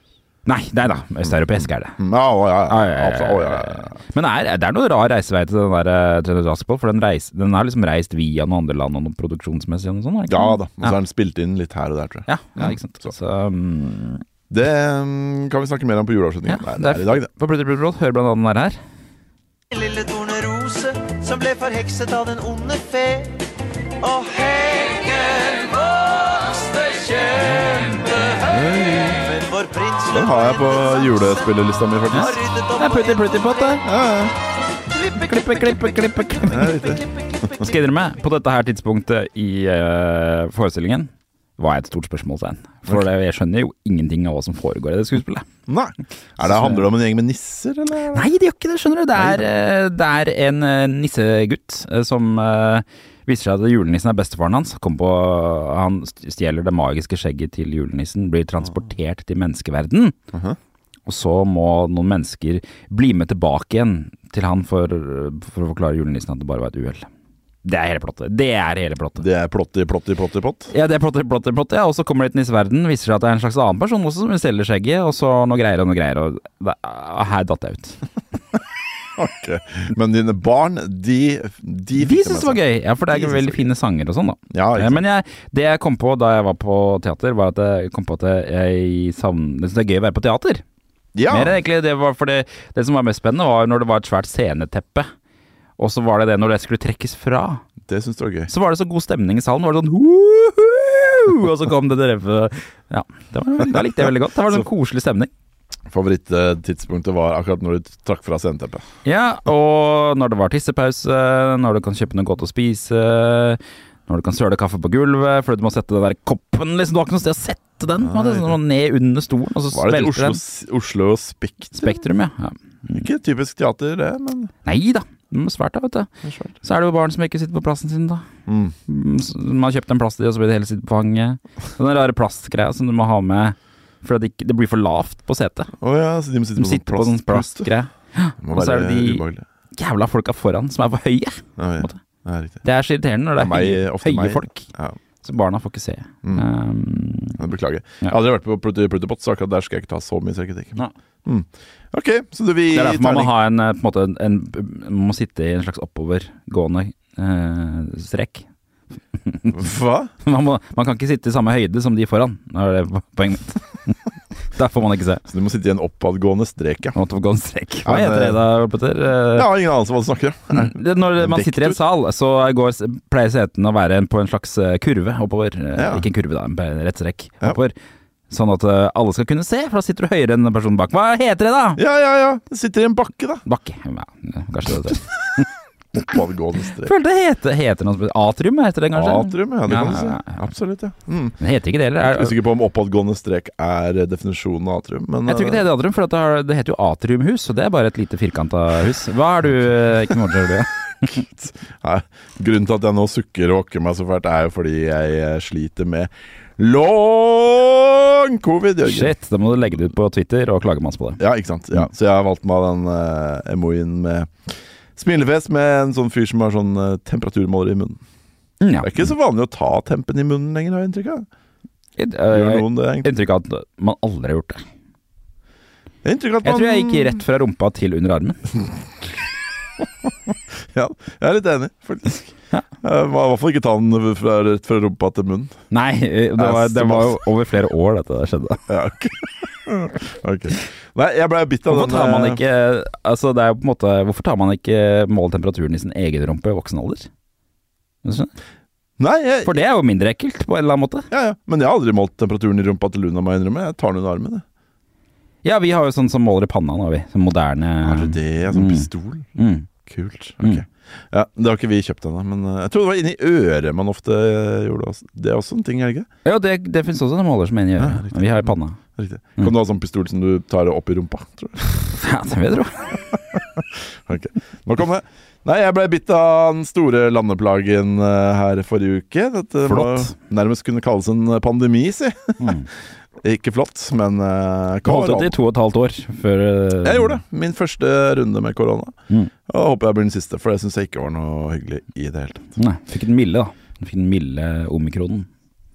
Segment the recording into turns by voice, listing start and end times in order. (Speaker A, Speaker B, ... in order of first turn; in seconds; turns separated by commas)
Speaker A: 0.5-2.0, Speaker B: 1.2-4.0, Speaker A: 2.7-10.9, Speaker B: 10.3-13.1, Speaker A: 12.3-14.2, Speaker B: 14.5-17.3, Speaker A: 16.5-18.8, Speaker C: 19.7-23.4, Speaker C: 24.0-31.5, Speaker B: 28.3-29.4, Speaker B: 30.1-32.4, Speaker A: 32.1-33.8, Speaker C: 32.1-33.6, Speaker B: 33.8-34.4, Speaker A: 35.0-45.5, Speaker B: 36.4-37.0, Speaker B: 45.7-48.3, Speaker A: 46.4-46.9, Speaker A: 48.1-60.1, Speaker B: 49.1-49.5, Speaker B: 60.3-60.6, Speaker A: 61.1-67.1, Speaker A: 67.6-69.2, Speaker B: 69.2-70.7, Speaker A: 70.7-78.0, Speaker B: 79.2-83.6, Speaker A: 82.0-90.6, Speaker B: 84.5-85.0, Speaker B: 91.1-91.6, Speaker A: 91.3-95.1, Speaker A: 95.8-97.6, Speaker B: 97.9-98.5, Speaker A: 98.5-105.3, Speaker B: 105.9-108.8, Speaker A: 109.0-120.4, Speaker B: 118.0-118.6, Speaker B: 119.7-122.0, Speaker A: 121.7-123.0, Speaker B: 122.9-124.5, Speaker A: 124.6-126.1, Speaker B: 126.2-126.5, Speaker A: 126.6-128.2, Speaker B: 128.5-128.8, Speaker A: 128.9-135.7, Speaker B: 135.8-137.7, Speaker A: 136.6-139.2, Speaker B: 138.4-139.4, Speaker A: 139.7-142.0, Speaker B: 141.6-142.6, Speaker A: 142.6-144.7, Speaker B: 143.4-144.9, Speaker A: 145.2-147.4, Speaker B: 147.4-153.3, Speaker A: 152.7-158.4, Speaker A: 159.2-159.6, Speaker B: 159.5-160.1, Speaker A: 160.2-164.0, Speaker A: 164.5-165.2, Speaker B: 165.3-166.9, Speaker A: 166.9-169.5, Speaker B: 167.8-168.4, Speaker B: 169.3-171.8, Speaker A: 170.5-177.7, Speaker B: 175.8-176.1, Speaker A: 178.3-181.8, Speaker B: 181.8-183.4, Speaker A: 183.4-185.5, Speaker B: 186.0-186.9, Speaker A: 186.8-190.4, Speaker B: 188.9-191.4, Speaker A: 191.4-192.3, Speaker B: 192.0-195.7, Speaker A: 195.3-201.2, Speaker B: 201.1-209.1, Speaker A: 208.8-211.2, Speaker B: 211.2-214.3, Speaker B: 214.9-218.0, Speaker A: 218.6-218.9, Speaker B: 218.8-221.3, Speaker A: 222.0-224.6, Speaker B: 222.3-223.1, Speaker B: 226.0-227.2, Speaker A: 226.4-228.4, Speaker B: 230.0-235.5, Speaker A: 235.7-238.6, Speaker B: 236.4-237.2, Speaker B: 238.7-242.4, Speaker A: 241.7-247.1, Speaker A: 248.0-248.3, Speaker B: 249.0-249.6, Speaker A: 249.4-251.1, Speaker B: 251.1-254.4, Speaker A: 255.4-259.7, Speaker B: 257.8-266.1, Speaker A: 266.2-268.8, Speaker B: 267.8-271.7, Speaker A: 271.9-273.0, Speaker B: 273.3-282.7, Speaker A: 279.6-280.1, Speaker A: 282.4-282.7, Speaker B: 283.2-285.4, Speaker A: 284.8-287.2, Speaker B: 286.8-288.9, Speaker B: 289.5-292.6, Speaker A: 292.6-295.3